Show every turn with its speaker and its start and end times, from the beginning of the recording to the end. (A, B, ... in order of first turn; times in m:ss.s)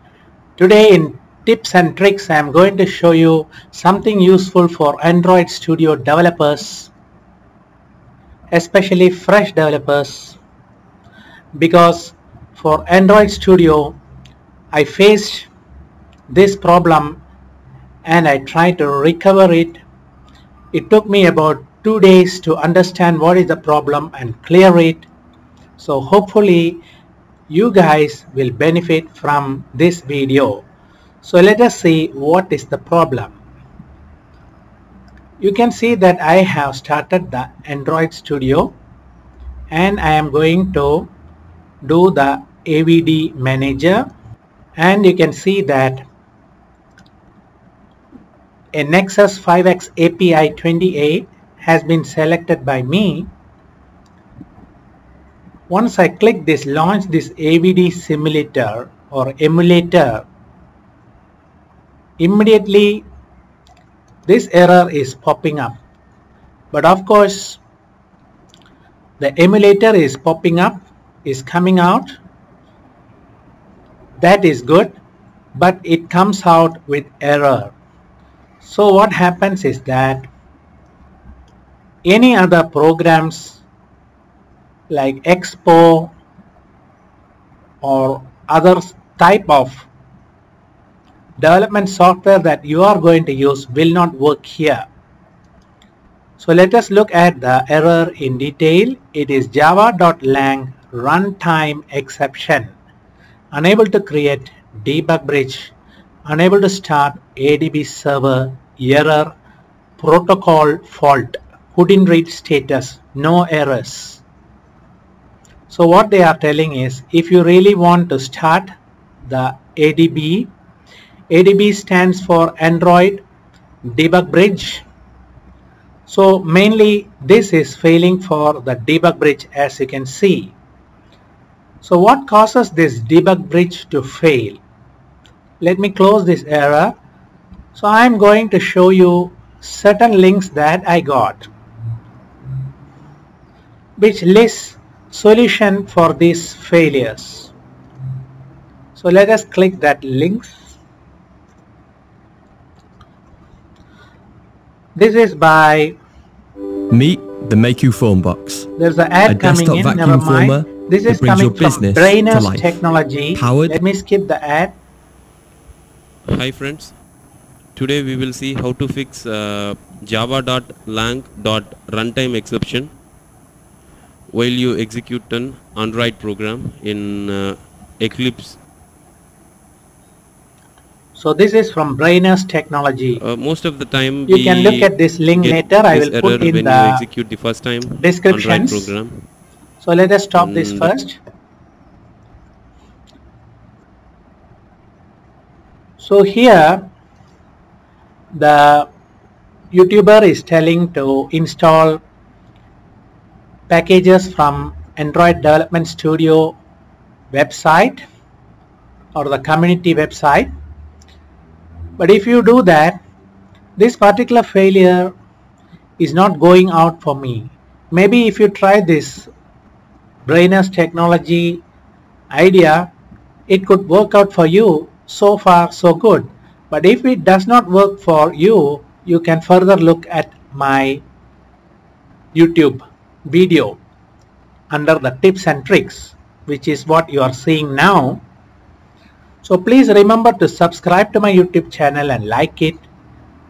0:00.6-0:06.9 A
0:08.5-0:10.4 A
0:11.6-0:14.0 A
0:14.7-0:15.5 A
0:16.3-0:17.2 A
0:18.0-0:19.8 A
0:20.7-0:25.1 A
0:25.8-0:26.8 A
0:27.5-0:30.6 A
0:31.2-0:33.4 A
0:35.4-0:38.8 A
0:39.7-0:41.1 A
0:41.8-0:44.1 A
0:44.8-0:46.0 A
0:48.7-0:53.3 A
0:55.7-1:00.2 A
1:02.2-1:03.1 A
1:04.3-1:05.8 A
1:06.7-1:07.6 A
1:09.2-1:12.2 A
1:14.2-1:15.0 A
1:15.6-1:17.7 A
1:18.6-1:20.3 A
1:22.0-1:23.6 A
1:24.9-1:26.1 A
1:27.8-1:29.9 A
1:31.4-1:34.9 A
1:36.4-1:42.7 A
1:43.5-1:45.7 A
1:46.3-1:49.3 A
1:50.0-1:54.2 A
1:55.7-1:58.7 A
1:59.3-2:00.5 A
2:01.3-2:03.2 A
2:03.9-2:04.8 A
2:06.1-2:10.5 A
2:11.8-2:14.6 A
2:15.6-2:17.0 A
2:17.8-2:21.5 A
2:24.0-2:27.5 A
2:29.0-2:30.8 A
2:35.0-2:35.9 A
2:36.9-2:38.7 B
2:38.8-2:44.8 A
2:39.3-2:42.8 B
2:43.3-2:43.8 B
2:46.3-2:47.0 C
2:47.8-2:52.9 C
2:54.3-2:58.6 C
3:01.2-3:03.2 A
3:03.2-3:09.2 C
3:04.3-3:07.0 A
3:08.0-3:08.9 A
3:09.8-3:11.2 A
3:10.4-3:10.9 C
3:16.0-3:16.9 A
3:18.4-3:18.9 A
3:19.7-3:22.0 A
3:23.7-3:26.6 A
3:27.3-3:28.0 A
3:29.2-3:30.5 A
3:32.0-3:33.0 A
3:33.8-3:35.1 A
3:36.0-3:39.3 A
3:40.3-3:41.6 A
3:42.3-3:42.9 A
3:43.5-3:51.0 A
3:52.3-3:53.8 A
3:54.7-3:58.2 A
3:59.4-4:02.8 A